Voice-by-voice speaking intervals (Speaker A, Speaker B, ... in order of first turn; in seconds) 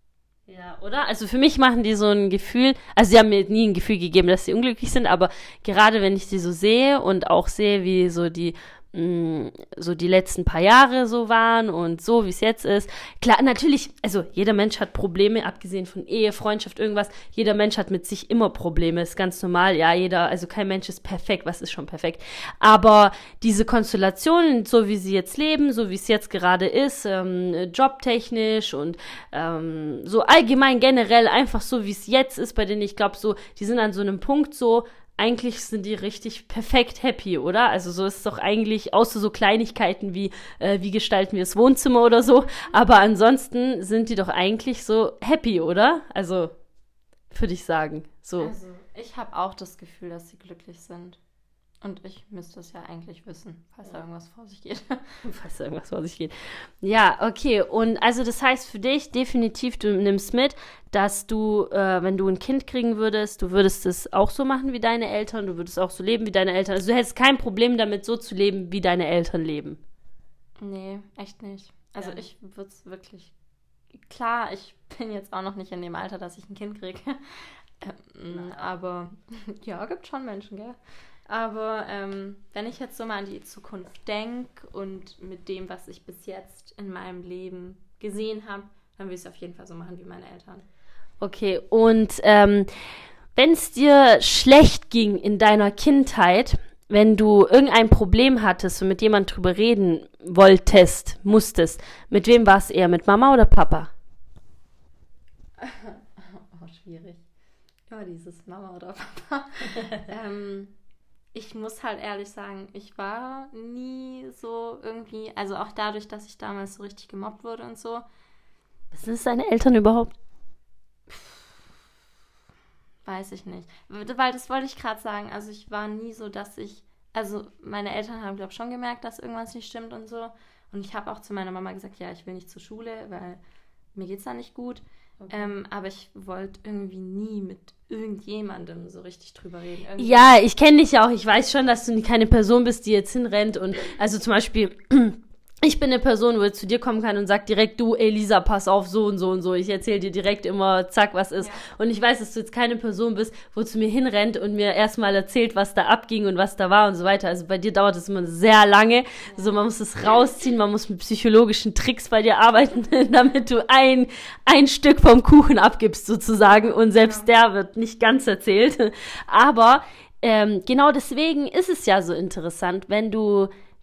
Speaker A: 0.5-46.5, 47.3-48.5, 55.2-69.8, 78.3-78.7, 91.2-92.7, 93.3-103.9, 118.9-120.2, 140.0-173.5
Speaker B: 48.4-51.2, 51.8-55.0, 70.6-73.3, 73.9-90.6, 105.6-107.2, 107.9-110.7, 111.3-118.0, 123.0-133.4, 133.9-140.3, 151.4-151.6, 159.2-159.6, 166.7-167.3